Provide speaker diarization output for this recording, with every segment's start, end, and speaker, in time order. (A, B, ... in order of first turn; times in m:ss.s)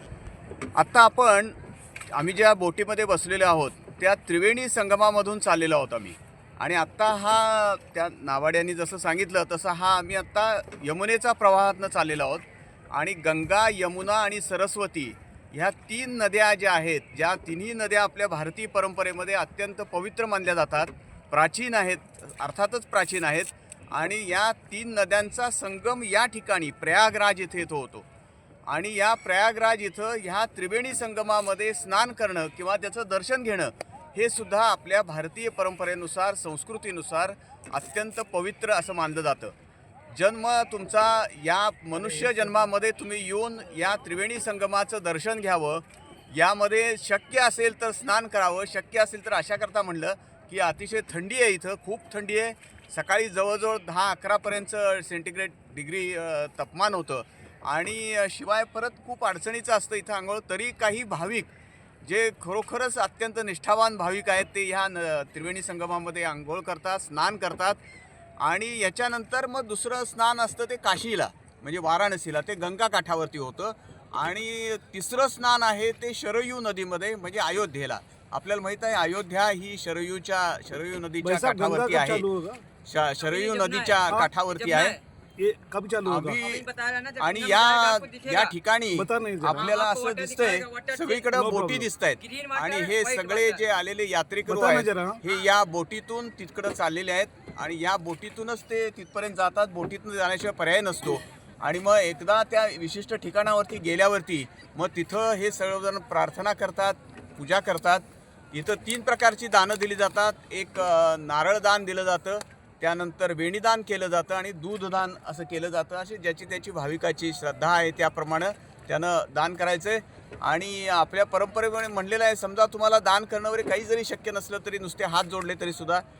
0:00.8-0:01.6 A
0:02.1-0:28.1 A
0:28.7-0:39.5 A
0:40.1-1:01.5 A
1:02.0-1:07.8 A
1:08.4-1:22.3 A
1:21.2-1:22.6 B
1:22.8-1:25.0 A
1:23.2-1:24.0 C
1:24.6-1:25.0 C
1:25.4-1:26.4 B
1:26.0-1:26.7 A
1:26.4-1:28.6 C
1:27.2-2:06.0 A
1:29.0-1:29.7 B
1:29.4-1:31.4 C
1:31.3-1:31.9 B
1:32.2-1:33.6 C
1:34.5-1:35.2 B